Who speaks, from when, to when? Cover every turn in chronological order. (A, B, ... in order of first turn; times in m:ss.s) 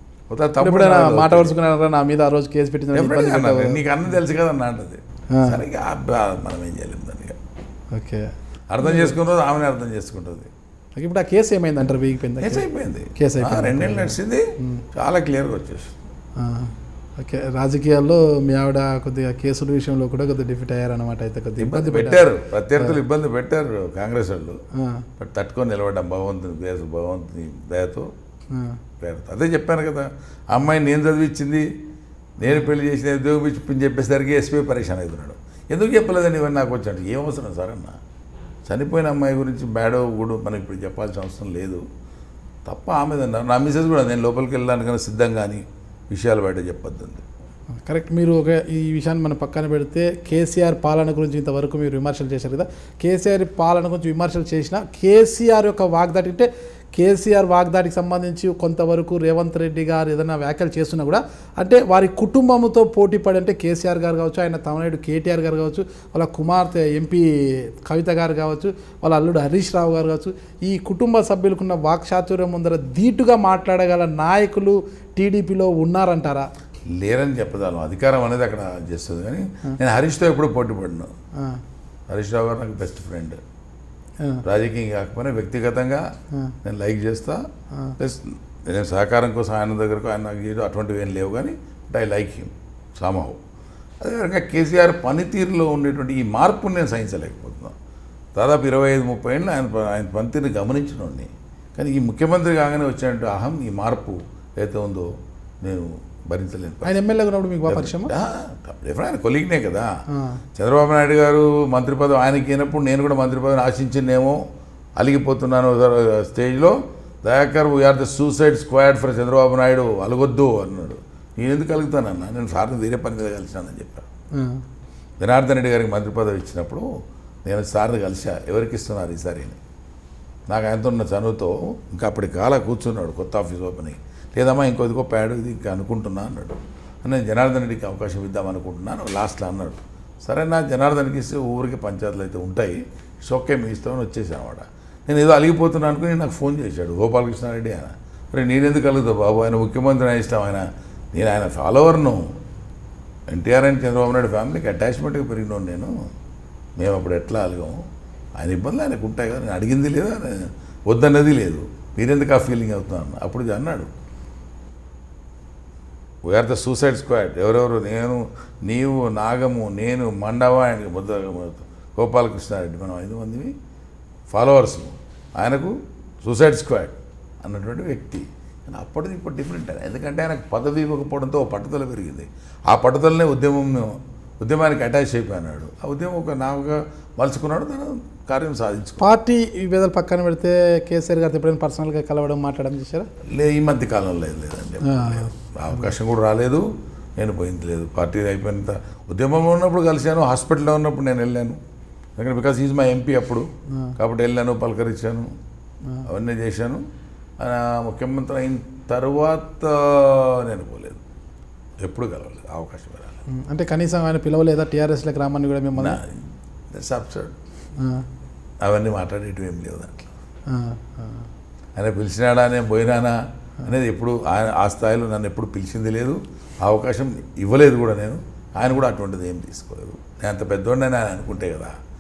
0:00.3-0:01.5 A
0:00.6-0:03.8 B
0:02.9-0:07.4 A
0:05.3-0:05.6 B
0:07.9-0:08.3 B
0:08.7-0:10.5 A
0:08.8-0:09.2 B
0:11.0-0:14.8 B
0:12.4-0:15.9 A
0:16.4-0:23.0 B
0:21.6-0:24.6 A
0:24.8-0:25.1 B
0:25.2-0:28.1 A
0:28.5-0:28.8 B
0:29.0-0:31.7 A
0:32.4-0:38.0 A
0:38.7-0:41.8 A
0:42.7-0:47.2 A
0:47.8-1:16.5 B
1:16.9-1:21.1 A
1:22.1-1:23.4 A
1:24.4-1:26.1 A
1:26.6-1:27.5 A
1:28.0-1:33.4 A
1:34.0-1:37.8 A
1:38.4-1:45.1 A
1:45.6-1:47.0 A
1:46.8-1:48.1 B
1:47.7-1:49.9 A
1:50.1-1:50.4 B
1:50.6-1:54.4 A
1:55.0-2:04.1 A
2:04.3-2:04.6 B
2:05.2-2:06.9 A
2:07.4-2:09.6 A
2:10.5-2:32.3 A
2:33.3-2:35.9 A
2:36.8-2:37.8 A
2:38.4-2:43.9 A
2:46.3-2:53.5 A
2:54.3-3:09.1 A
3:09.0-3:13.1 B
3:13.3-3:16.7 A
3:14.8-3:15.9 B
3:17.2-3:21.6 A
3:22.2-3:23.5 A
3:24.0-3:25.3 A
3:26.1-3:26.8 A
3:27.4-3:31.0 A
3:31.8-3:33.2 A
3:33.3-3:36.0 B
3:35.8-3:36.2 A
3:36.7-3:37.3 A
3:37.8-3:38.0 B
3:38.6-3:40.1 A
3:40.5-3:41.3 B
3:41.8-3:51.8 A